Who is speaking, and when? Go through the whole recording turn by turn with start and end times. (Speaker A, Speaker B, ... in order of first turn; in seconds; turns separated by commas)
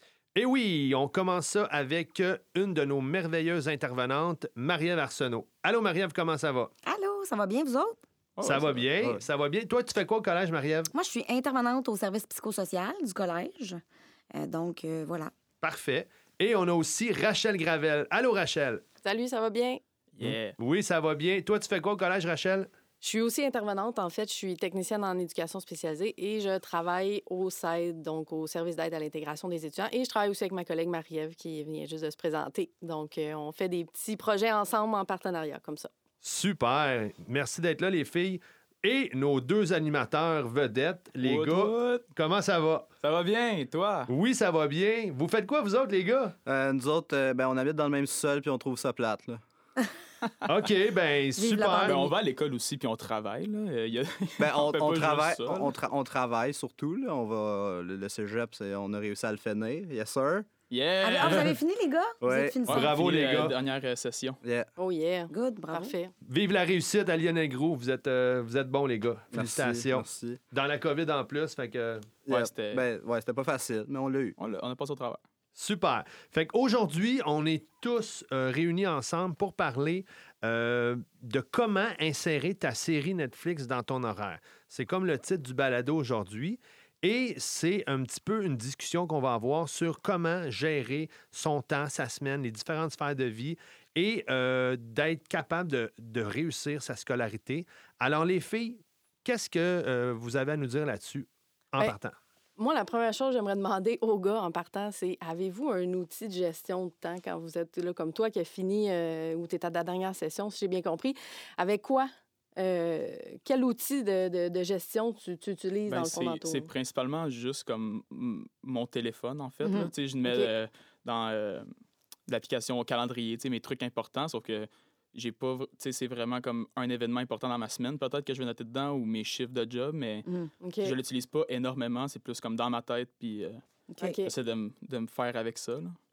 Speaker A: 0.3-6.7, Speaker B: 6.8-8.0, Speaker C: 8.4-9.1, Speaker A: 8.4-10.9, Speaker B: 10.9-13.8, Speaker B: 14.3-15.3, Speaker A: 15.6-18.8, Speaker D: 19.0-19.8, Speaker C: 20.1-20.6, Speaker A: 20.2-22.7, Speaker D: 23.0-35.9, Speaker A: 36.2-42.9, Speaker C: 41.2-42.0, Speaker C: 43.0-44.1, Speaker A: 44.1-46.4, Speaker E: 46.5-49.4, Speaker A: 50.4-52.0, Speaker B: 51.4-52.1, Speaker C: 51.8-55.7, Speaker E: 54.4-60.5, Speaker C: 60.7-61.6, Speaker B: 61.0-62.9, Speaker E: 62.2-62.6, Speaker C: 62.7-64.4, Speaker A: 62.7-63.5, Speaker E: 64.4-64.7, Speaker D: 64.8-66.1, Speaker B: 65.3-65.9, Speaker A: 66.2-72.1, Speaker E: 69.3-70.4, Speaker E: 72.2-74.3, Speaker C: 72.3-72.8, Speaker C: 74.4-75.2, Speaker A: 75.5-102.2, Speaker D: 102.6-116.7, Speaker C: 115.9-121.7, Speaker B: 119.6-119.9, Speaker D: 120.2-120.5, Speaker C: 122.3-130.3, Speaker D: 130.6-130.9, Speaker C: 130.8-133.6, Speaker B: 133.9-134.2, Speaker D: 134.0-134.3, Speaker C: 134.2-136.0